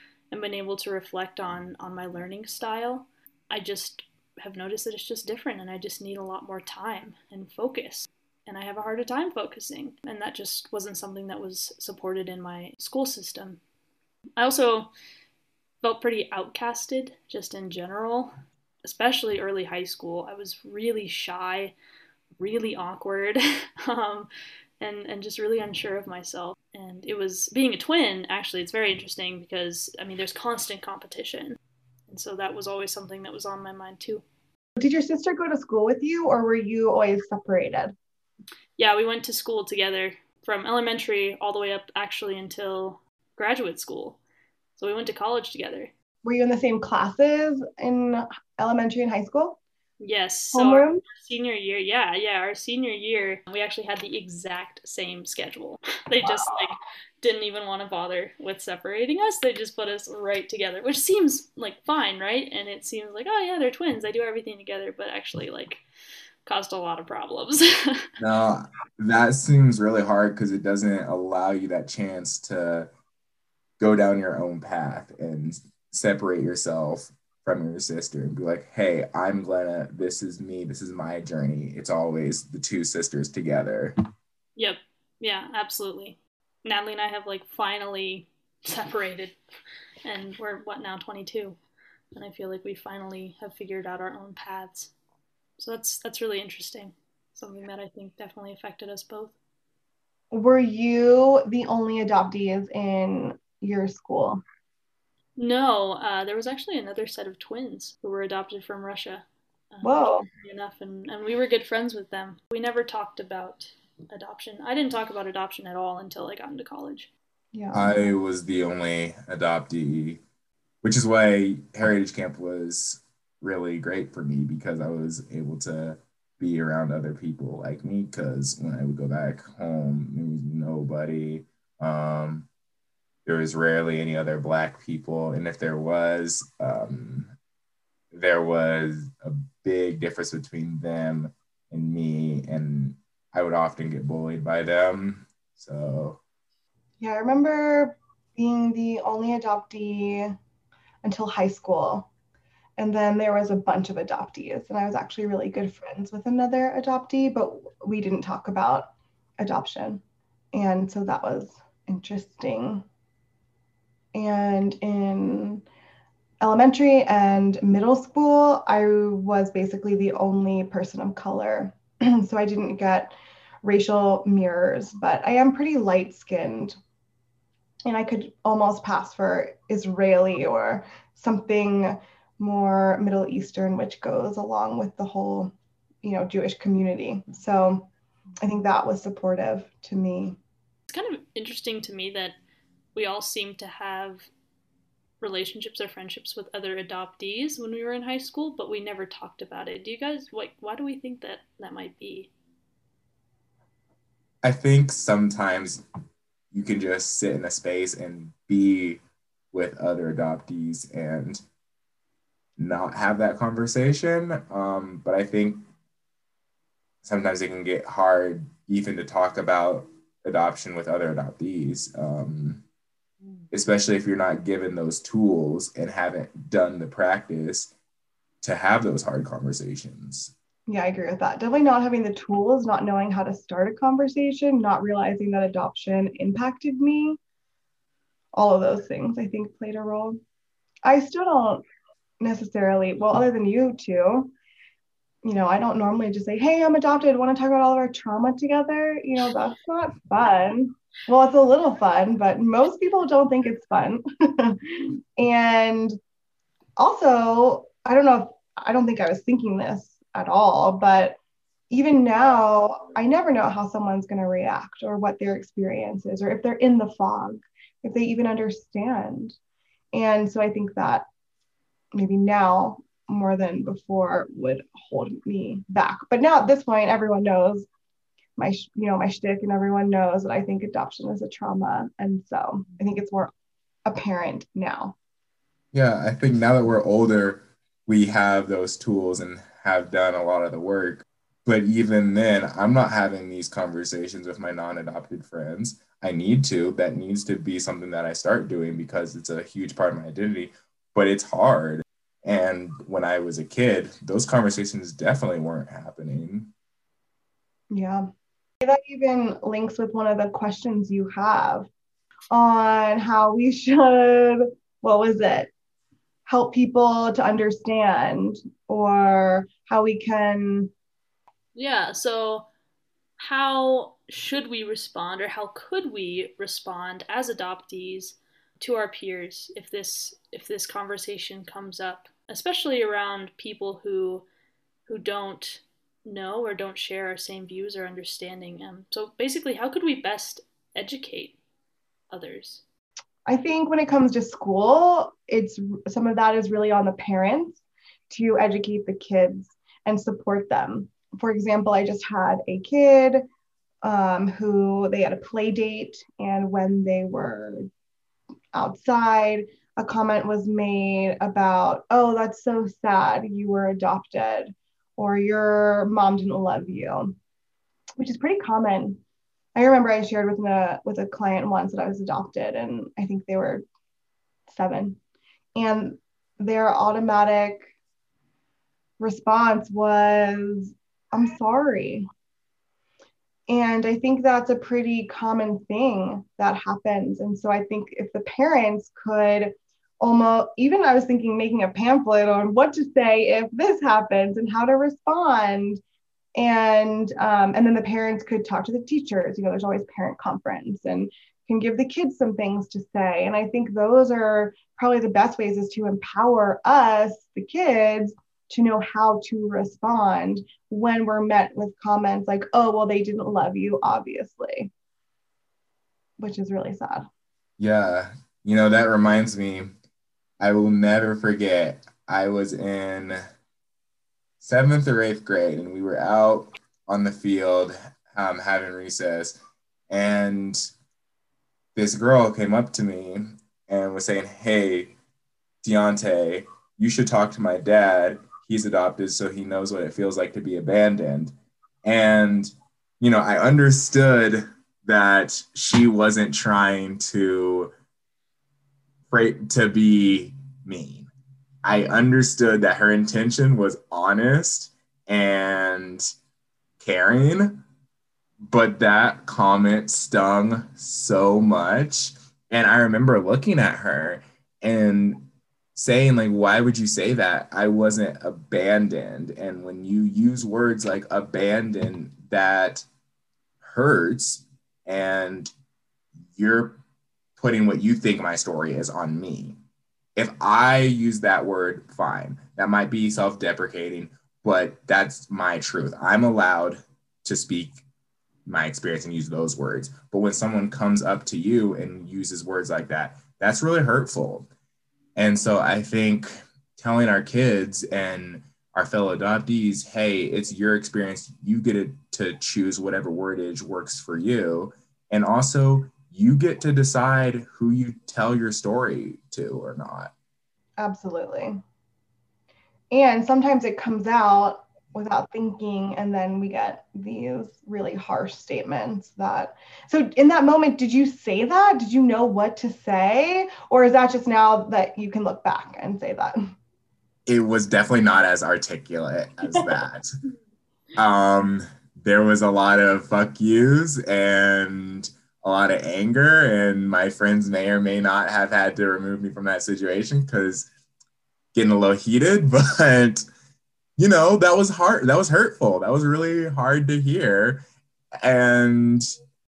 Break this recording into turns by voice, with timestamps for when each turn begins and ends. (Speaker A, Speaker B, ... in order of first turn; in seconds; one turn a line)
Speaker A: 0.3-13.6
Speaker A: 14.4-14.9
Speaker A: 15.8-18.3
Speaker A: 18.8-21.8
Speaker A: 22.4-24.3
Speaker A: 24.8-31.6
Speaker A: 32.1-34.2
Speaker B: 34.8-37.9
Speaker A: 38.8-44.2
Speaker A: 44.8-45.9
Speaker B: 46.2-49.6
Speaker A: 50.0-65.8
Speaker B: 50.5-51.0
Speaker A: 66.5-68.1
Speaker C: 68.2-72.9
Speaker C: 73.8-83.9
Speaker A: 84.6-89.3
Speaker A: 90.0-91.6
Speaker A: 92.1-94.9
Speaker A: 95.6-99.4
Speaker B: 100.3-104.4
Speaker A: 105.4-117.1
Speaker B: 109.8-110.3
Speaker B: 117.5-118.0
Speaker C: 117.7-120.2
Speaker C: 120.8-132.5
Speaker C: 133.2-137.3
Speaker C: 138.1-146.2
Speaker B: 147.0-150.4
Speaker B: 151.0-152.1
Speaker B: 152.8-160.0
Speaker B: 160.5-162.8
Speaker B: 164.1-165.7
Speaker B: 166.4-176.8
Speaker B: 177.8-187.9
Speaker B: 188.4-190.4
Speaker A: 190.9-192.4
Speaker A: 192.9-194.3
Speaker A: 195.2-202.3
Speaker C: 204.4-205.8
Speaker C: 206.5-209.0
Speaker C: 209.5-211.4
Speaker C: 212.6-215.7
Speaker C: 217.0-222.6
Speaker C: 223.5-227.7
Speaker C: 228.4-230.3
Speaker B: 230.7-237.2
Speaker B: 238.3-240.2
Speaker B: 240.8-241.6
Speaker B: 242.2-244.3
Speaker B: 245.2-256.0
Speaker B: 256.8-261.2
Speaker B: 261.7-269.4
Speaker B: 269.9-271.1
Speaker B: 271.9-277.7
Speaker B: 278.4-283.3
Speaker B: 283.9-285.0
Speaker C: 285.7-306.5
Speaker B: 307.7-308.1
Speaker B: 308.6-311.7
Speaker B: 312.3-315.5
Speaker B: 316.3-320.7
Speaker A: 321.6-322.5
Speaker A: 323.2-334.2
Speaker A: 334.9-341.4
Speaker A: 342.1-342.6
Speaker B: 343.3-353.2
Speaker B: 353.8-357.7
Speaker B: 358.5-367.2
Speaker B: 368.0-369.0
Speaker B: 369.6-373.6
Speaker B: 374.5-375.0
Speaker B: 375.6-377.7
Speaker B: 379.0-382.1
Speaker B: 383.5-395.8
Speaker B: 396.4-414.7
Speaker B: 416.2-417.1
Speaker C: 417.6-419.7
Speaker C: 420.4-423.2
Speaker C: 424.4-429.4
Speaker C: 429.9-430.7
Speaker C: 431.8-434.9
Speaker C: 435.6-447.7
Speaker C: 449.1-451.1
Speaker C: 451.6-456.0
Speaker C: 456.8-457.6
Speaker C: 458.4-472.9
Speaker C: 473.6-475.5
Speaker C: 476.3-476.8
Speaker C: 477.4-479.6
Speaker C: 480.2-487.8
Speaker C: 488.5-494.5
Speaker C: 495.2-510.1
Speaker B: 510.8-511.6
Speaker B: 512.9-526.5
Speaker C: 527.3-530.1
Speaker C: 531.0-540.7
Speaker C: 541.5-543.2
Speaker C: 544.0-547.6
Speaker C: 548.2-549.1